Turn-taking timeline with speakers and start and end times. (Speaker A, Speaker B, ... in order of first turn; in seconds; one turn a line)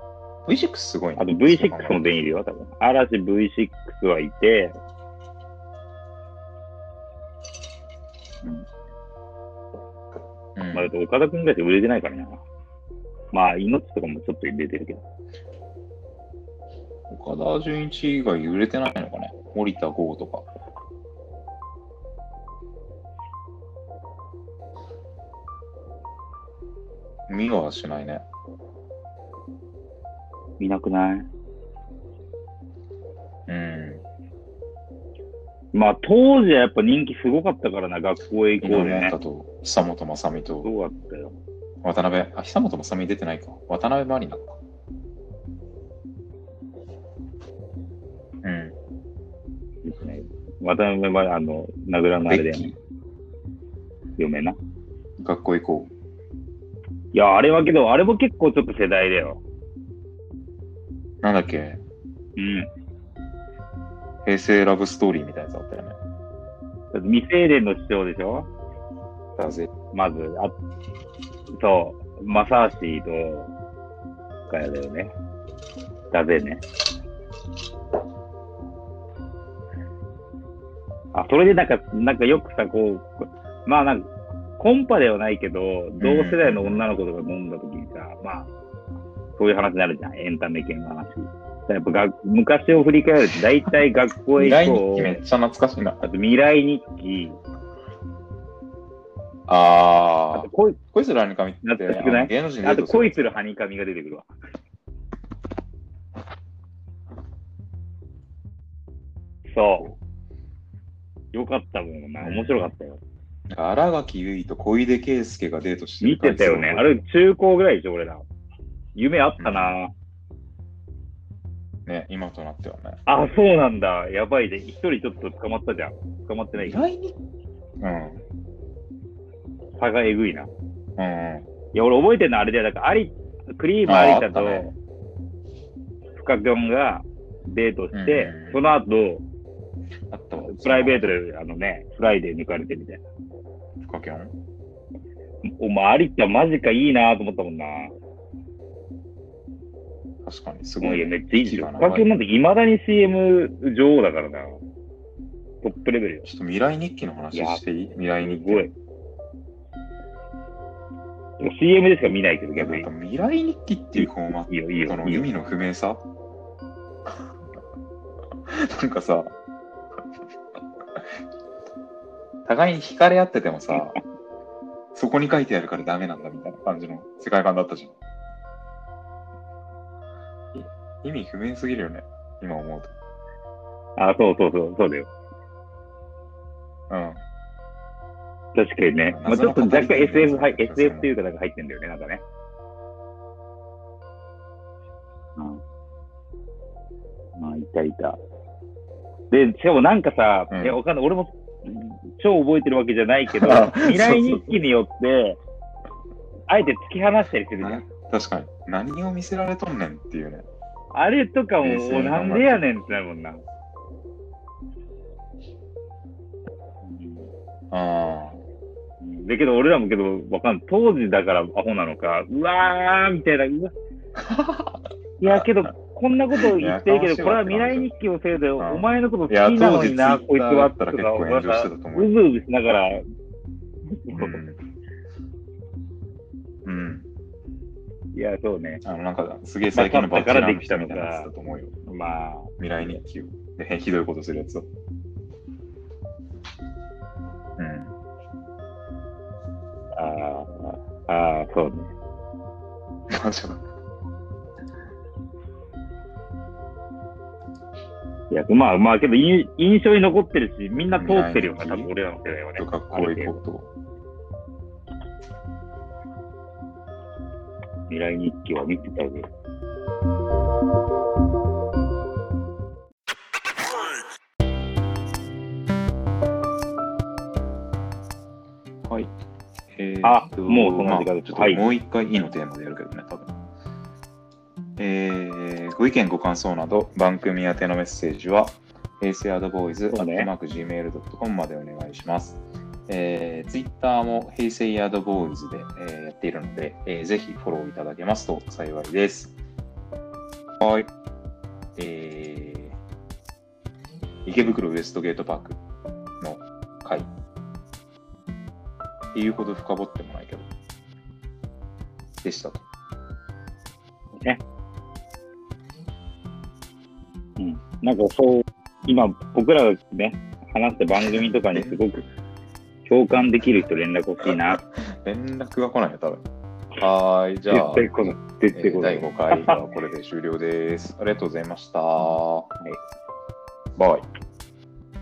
Speaker A: 0.5-2.1
Speaker B: 1.2-4.8
Speaker A: 10.6-10.9
Speaker B: 10.7-12.4
Speaker B: 13.3-15.0
Speaker A: 17.1-20.5
Speaker A: 27.3-28.2
Speaker B: 30.6-31.3
Speaker A: 33.5-34.0
Speaker B: 35.7-39.2
Speaker A: 38.6-40.7
Speaker B: 40.6-41.4
Speaker A: 41.8-44.6
Speaker A: 48.4-48.8
Speaker B: 49.8-52.8
Speaker A: 52.3-52.8
Speaker B: 54.2-54.6
Speaker A: 55.2-55.9
Speaker B: 57.1-59.4
Speaker A: 61.2-61.8
Speaker B: 62.4-62.7
Speaker A: 64.2-66.0
Speaker B: 66.9-68.5
Speaker A: 69.4-69.7
Speaker B: 69.9-70.5
Speaker B: 71.5-73.5
Speaker B: 74.5-75.1
Speaker B: 76.1-76.6
Speaker B: 81.1-88.5
Speaker A: 86.0-86.8
Speaker B: 89.4-95.2
Speaker A: 94.4-96.0
Speaker B: 96.0-97.4
Speaker A: 99.5-103.4
Speaker B: 100.3-100.8
Speaker B: 101.6-104.3
Speaker B: 109.5-109.9
Speaker B: 111.3-113.0
Speaker A: 112.2-112.7
Speaker A: 113.5-117.0
Speaker B: 116.0-118.2
Speaker B: 119.0-119.9
Speaker A: 119.4-119.8
Speaker A: 121.9-123.0
Speaker B: 123.1-126.9
Speaker A: 126.6-127.2
Speaker A: 127.8-128.2
Speaker B: 129.8-130.5
Speaker A: 131.0-131.5
Speaker B: 131.7-134.7
Speaker A: 133.9-134.7
Speaker B: 136.2-139.2
Speaker A: 137.9-138.6
Speaker A: 140.1-141.1
Speaker B: 140.4-143.0
Speaker A: 143.8-144.3
Speaker B: 145.6-147.9
Speaker A: 150.2-152.1
Speaker B: 150.8-154.6
Speaker B: 155.6-156.3
Speaker A: 156.2-158.7
Speaker B: 157.3-157.6
Speaker B: 158.2-158.7
Speaker B: 161.4-162.9
Speaker A: 162.6-166.1
Speaker B: 164.0-165.3
Speaker A: 168.5-169.3
Speaker A: 172.4-174.0
Speaker A: 174.9-177.9
Speaker A: 180.5-182.9
Speaker B: 184.0-185.1
Speaker A: 186.9-187.2
Speaker B: 188.6-192.2
Speaker A: 189.1-191.1
Speaker B: 197.4-198.2
Speaker B: 199.3-205.4
Speaker A: 200.5-200.8
Speaker A: 203.3-204.4
Speaker B: 206.5-207.9
Speaker A: 207.6-210.5
Speaker B: 210.9-213.4
Speaker A: 211.6-212.6
Speaker B: 216.8-217.3
Speaker A: 217.7-218.4
Speaker B: 219.0-223.7
Speaker A: 224.2-225.5
Speaker B: 225.2-233.1
Speaker A: 226.3-227.9
Speaker A: 228.6-232.1
Speaker B: 233.9-234.4
Speaker A: 234.1-234.6
Speaker A: 236.7-237.1
Speaker B: 238.1-238.8
Speaker A: 238.8-241.8
Speaker B: 239.7-241.3
Speaker B: 241.8-242.6
Speaker A: 242.6-244.7
Speaker A: 247.6-247.9
Speaker B: 249.9-251.9
Speaker A: 253.1-253.6
Speaker B: 258.3-263.4
Speaker A: 260.9-261.9
Speaker A: 262.6-263.7
Speaker B: 267.9-269.3
Speaker A: 278.9-279.1
Speaker A: 279.8-283.4
Speaker B: 280.0-281.6
Speaker A: 284.8-299.4
Speaker B: 289.9-290.3
Speaker A: 300.6-300.9
Speaker A: 301.8-302.8
Speaker A: 304.2-305.6
Speaker A: 306.2-307.1
Speaker A: 309.1-310.5
Speaker A: 312.2-312.6
Speaker B: 317.4-322.1
Speaker A: 321.1-321.8
Speaker B: 322.9-324.6
Speaker A: 324.2-326.2
Speaker A: 326.8-332.5
Speaker B: 327.5-329.6
Speaker B: 333.8-334.0